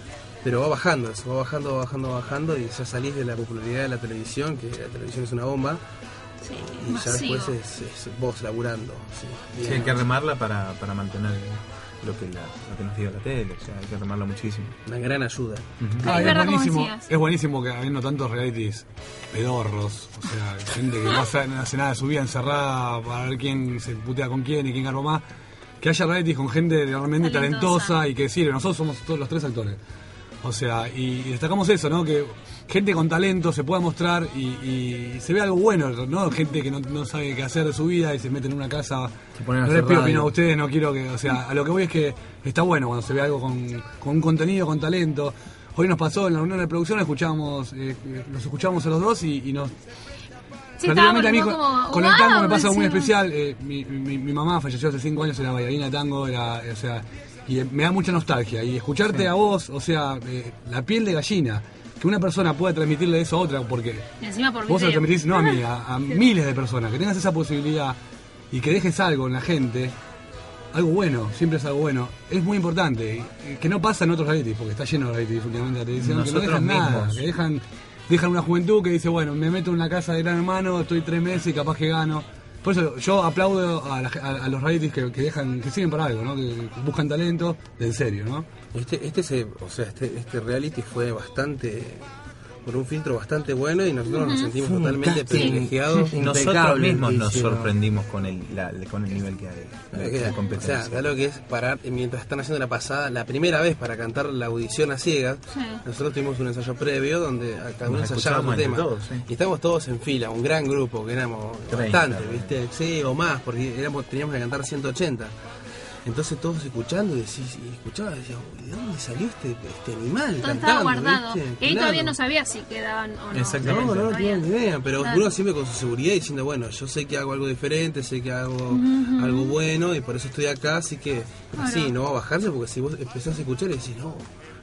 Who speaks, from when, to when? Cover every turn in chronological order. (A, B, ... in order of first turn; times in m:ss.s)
0:00.4-0:05.8 A
0:06.4-0:07.6 B
0:06.7-0:10.0 A
0:09.6-0:14.8 C
0:14.8-0:15.7 A
0:15.8-0:16.2 C
0:16.0-0:25.2 D
0:16.0-0:17.1 B
0:25.8-0:29.8 D
0:27.2-0:28.0 B
0:30.4-0:39.1 D
0:39.4-0:40.3 E
0:39.6-0:49.7 D
0:50.8-0:53.1 B
0:50.8-1:04.1 D
1:04.2-1:05.6 B
1:04.7-1:08.0 D
1:08.5-1:10.0 D
1:10.7-1:28.5 D
1:16.0-1:17.2 C
1:28.7-1:32.0 A
1:32.6-1:36.1 A
1:34.1-1:34.5 B
1:34.6-1:37.7 E
1:36.1-1:41.1 C
1:39.9-1:55.3 A
1:45.5-1:45.8 B
1:47.8-1:49.2 C
1:51.7-1:52.5 C
1:56.0-2:02.1 A
2:00.4-2:05.3 B
2:03.3-2:04.2 C
2:03.6-2:14.3 A
2:08.7-2:09.6 B
2:11.6-2:11.9 B